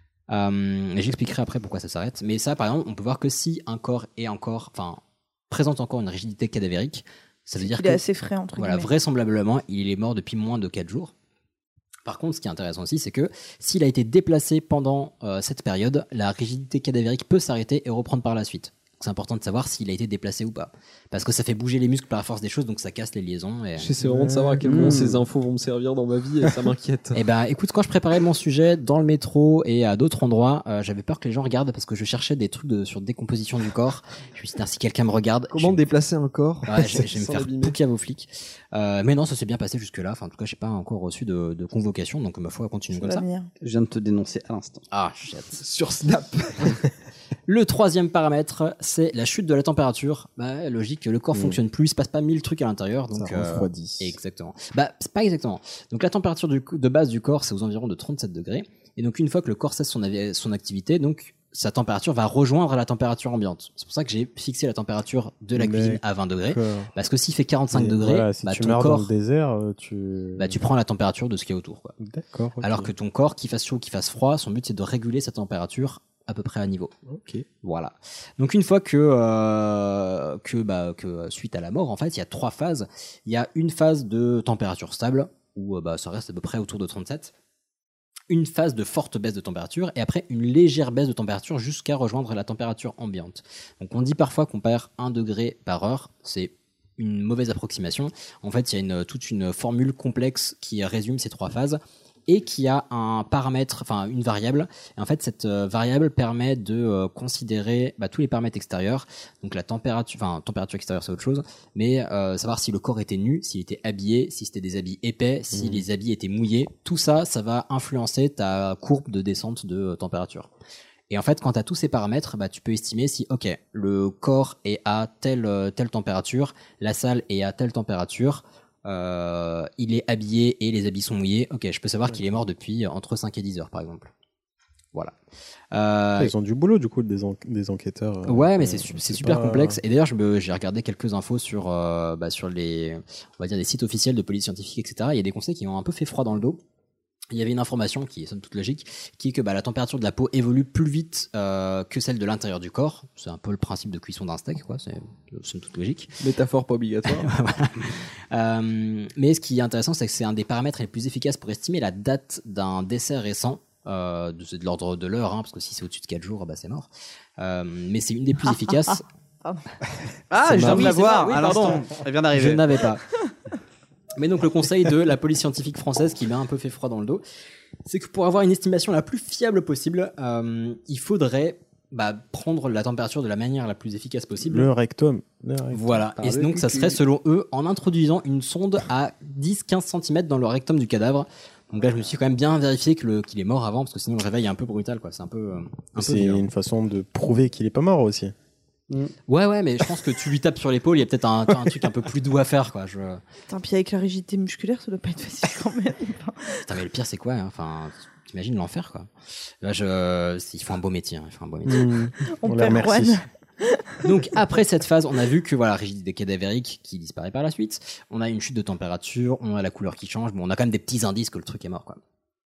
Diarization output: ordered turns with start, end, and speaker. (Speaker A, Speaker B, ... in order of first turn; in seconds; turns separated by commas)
Speaker A: 0.3-8.0, Speaker B: 7.6-8.9, Speaker A: 8.6-11.1, Speaker A: 12.1-23.9, Speaker C: 23.8-27.2, Speaker D: 24.0-25.0, Speaker E: 24.6-25.2, Speaker A: 27.1-35.8, Speaker C: 35.5-37.8, Speaker A: 36.7-43.2, Speaker B: 42.9-43.5, Speaker E: 43.6-44.8, Speaker A: 44.9-45.6, Speaker C: 45.6-46.8, Speaker A: 47.5-69.1, Speaker D: 51.3-51.6, Speaker D: 53.1-54.2, Speaker D: 65.5-66.9, Speaker D: 67.7-70.6, Speaker A: 70.4-72.0, Speaker D: 72.0-72.9, Speaker A: 72.6-76.9, Speaker D: 77.1-77.5, Speaker A: 77.6-87.3, Speaker A: 88.3-120.5, Speaker D: 115.5-115.8, Speaker A: 121.1-134.1, Speaker A: 135.7-136.3, Speaker D: 136.2-139.8, Speaker A: 138.2-146.6, Speaker A: 147.3-156.1, Speaker C: 156.2-157.3, Speaker A: 157.1-169.0, Speaker B: 168.5-169.6, Speaker E: 170.3-172.8, Speaker D: 170.4-171.0, Speaker A: 170.5-173.0, Speaker A: 174.2-177.2, Speaker A: 177.8-184.7, Speaker D: 184.4-186.0, Speaker A: 185.7-196.5, Speaker E: 186.2-187.0, Speaker D: 196.0-198.3, Speaker A: 199.3-203.2, Speaker B: 203.5-206.6, Speaker A: 206.7-209.1, Speaker A: 209.6-211.9, Speaker D: 211.7-213.2, Speaker B: 212.3-214.1, Speaker A: 214.0-222.0